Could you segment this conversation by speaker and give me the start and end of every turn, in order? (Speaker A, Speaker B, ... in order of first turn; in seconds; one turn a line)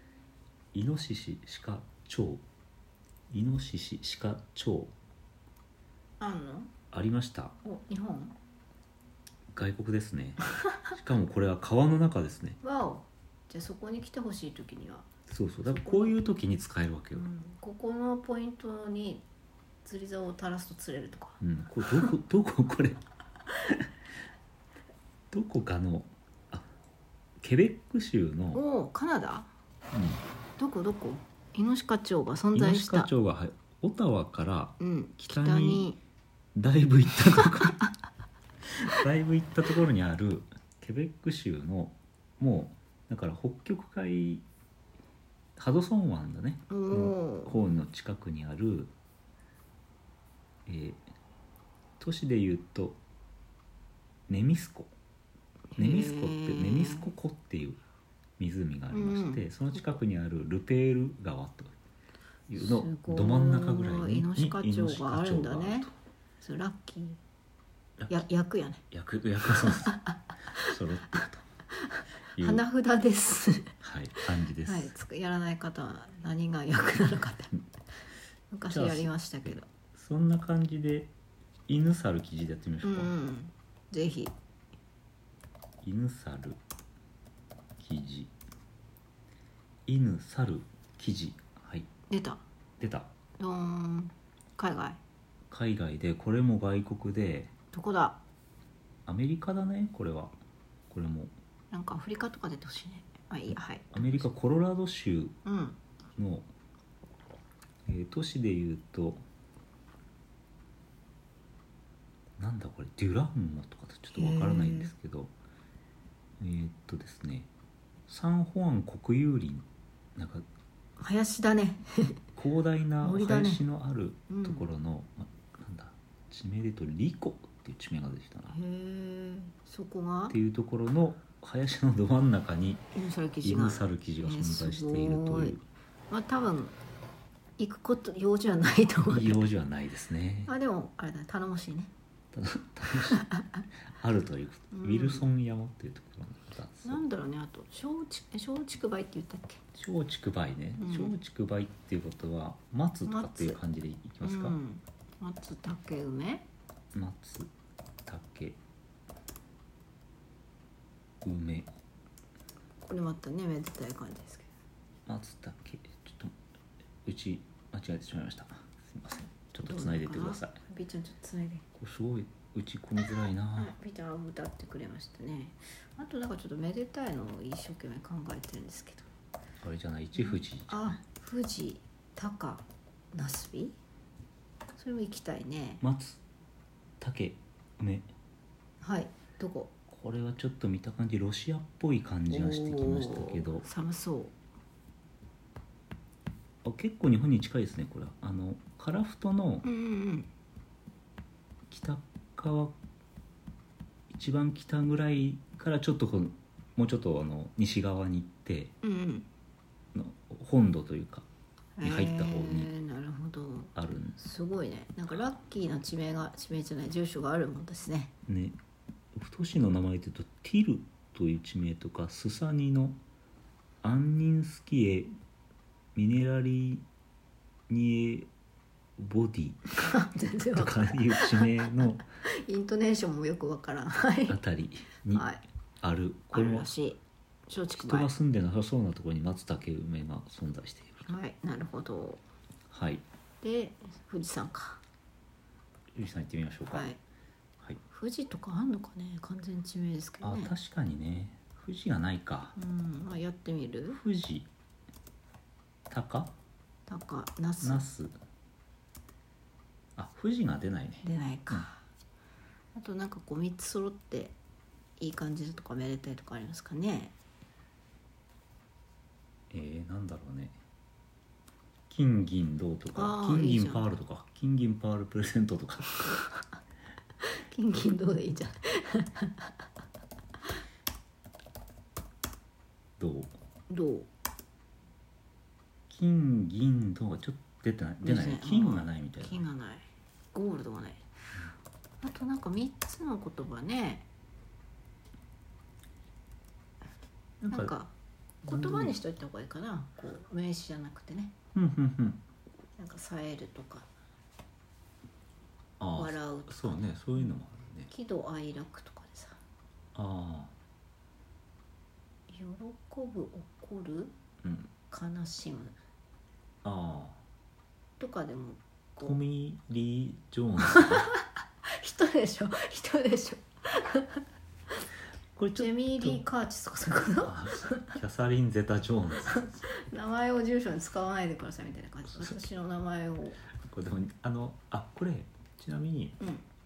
Speaker A: 0.7-2.4
Speaker A: 3.3-4.9
Speaker B: 6.2-6.7
Speaker A: 6.9-7.5
Speaker B: 7.6-8.4
Speaker A: 9.5-12.6
Speaker B: 12.6-15.1
Speaker A: 15.3-17.3
Speaker B: 15.7-16.2
Speaker B: 17.1-19.2
Speaker B: 19.9-21.4
Speaker A: 21.4-23.0
Speaker A: 25.3-26.7
Speaker A: 27.4-28.6
Speaker B: 28.5-29.5
Speaker A: 29.9-30.2
Speaker B: 30.6-33.1
Speaker A: 32.5-35.9
Speaker B: 34.8-36.0
Speaker A: 36.5-37.8
Speaker A: 38.8-44.5
Speaker A: 45.6-48.9
Speaker B: 46.7-47.6
Speaker A: 50.7-51.0
Speaker A: 52.0-53.0
Speaker A: 54.3-54.9
Speaker B: 55.7-57.1
Speaker A: 55.8-57.8
Speaker A: 58.4-61.7
Speaker B: 58.9-59.5
Speaker A: 62.5-65.9
Speaker B: 62.6-65.9
Speaker B: 66.4-67.2
Speaker B: 68.1-68.8
Speaker A: 68.9-70.0
Speaker B: 69.6-70.8
Speaker A: 70.6-71.4
Speaker B: 71.7-77.6
Speaker A: 72.3-72.6
Speaker A: 73.8-74.9
Speaker B: 78.5-79.7
Speaker A: 78.7-81.1
Speaker A: 81.7-83.1
Speaker B: 82.8-84.3
Speaker A: 85.8-86.6
Speaker A: 87.8-88.3
Speaker A: 89.9-91.9
Speaker B: 92.1-92.4
Speaker A: 92.8-93.1
Speaker B: 93.4-95.0
Speaker A: 95.5-97.5
Speaker B: 97.7-98.2
Speaker A: 99.1-100.4
Speaker A: 100.9-101.3
Speaker B: 101.7-104.3
Speaker A: 103.9-105.3
Speaker B: 105.5-105.8
Speaker A: 106.2-106.5
Speaker A: 107.9-109.2
Speaker A: 112.4-115.3
Speaker B: 114.1-114.9
Speaker A: 116.4-117.5
Speaker A: 118.1-120.5
Speaker B: 121.0-122.2
Speaker A: 122.4-128.6
Speaker B: 123.0-123.6
Speaker B: 124.3-124.6
Speaker B: 128.5-130.3
Speaker A: 130.3-132.8
Speaker B: 132.9-135.6
Speaker A: 133.4-135.6
Speaker B: 136.1-136.8
Speaker B: 137.6-139.4
Speaker A: 139.1-140.5
Speaker B: 140.5-141.9
Speaker A: 142.3-143.2
Speaker B: 143.1-143.6
Speaker A: 143.9-147.0
Speaker B: 144.7-145.3
Speaker B: 146.8-149.6
Speaker A: 149.8-154.6
Speaker B: 150.8-151.2
Speaker B: 153.1-153.6
Speaker B: 154.2-156.4
Speaker A: 156.9-157.5
Speaker A: 158.1-158.6
Speaker A: 161.2-161.7
Speaker B: 162.9-164.5
Speaker A: 165.1-166.3
Speaker A: 167.1-170.6
Speaker B: 169.6-171.7
Speaker A: 171.8-173.7
Speaker B: 173.6-179.1
Speaker A: 179.6-181.0
Speaker B: 180.2-183.8
Speaker B: 184.8-185.8
Speaker A: 185.8-186.2
Speaker A: 187.0-188.1
Speaker B: 188.8-189.7
Speaker A: 189.9-193.7
Speaker B: 192.3-194.3
Speaker A: 196.6-199.7
Speaker B: 199.6-200.3
Speaker A: 201.7-202.8
Speaker A: 204.1-208.7
Speaker B: 208.8-209.3
Speaker A: 209.9-211.3
Speaker B: 211.8-218.1
Speaker A: 211.8-212.7
Speaker A: 213.8-214.2
Speaker A: 218.3-218.6
Speaker A: 219.1-223.0
Speaker A: 223.8-225.1
Speaker A: 225.9-226.8
Speaker A: 227.7-228.3
Speaker A: 229.0-229.9
Speaker B: 229.8-234.4
Speaker A: 230.5-232.0
Speaker A: 234.3-235.3
Speaker B: 235.1-235.4
Speaker A: 235.8-236.7
Speaker B: 236.3-238.1
Speaker A: 237.8-241.1
Speaker B: 241.1-242.2
Speaker A: 242.7-243.0
Speaker B: 243.4-244.8
Speaker A: 245.9-246.9
Speaker B: 246.7-247.0
Speaker B: 247.9-250.5
Speaker A: 250.2-252.6
Speaker B: 252.6-254.0
Speaker A: 253.9-254.5
Speaker A: 255.9-256.3
Speaker B: 256.9-257.9
Speaker A: 257.6-258.2
Speaker A: 260.0-261.7
Speaker B: 261.0-261.8
Speaker B: 262.8-264.4
Speaker B: 265.0-267.1
Speaker A: 269.5-270.6
Speaker A: 271.9-276.2
Speaker B: 272.9-274.0
Speaker B: 275.9-276.6
Speaker B: 277.2-279.6
Speaker A: 283.0-283.4
Speaker B: 283.7-284.1
Speaker A: 285.9-289.5
Speaker B: 288.0-291.1
Speaker B: 292.0-294.1
Speaker A: 297.4-297.8
Speaker B: 297.5-297.9
Speaker A: 298.4-299.0
Speaker B: 298.5-301.4
Speaker A: 301.5-302.2
Speaker B: 302.8-303.9
Speaker A: 305.8-307.9
Speaker B: 305.9-306.8
Speaker B: 307.9-309.4
Speaker A: 309.9-310.5
Speaker B: 312.3-314.1
Speaker A: 314.4-314.7
Speaker B: 314.9-315.8
Speaker A: 316.6-317.2
Speaker B: 318.0-319.2
Speaker A: 319.0-321.1
Speaker B: 320.7-324.2
Speaker A: 325.4-326.2
Speaker B: 325.6-327.9
Speaker A: 327.2-329.6
Speaker B: 329.2-333.4
Speaker A: 333.6-336.2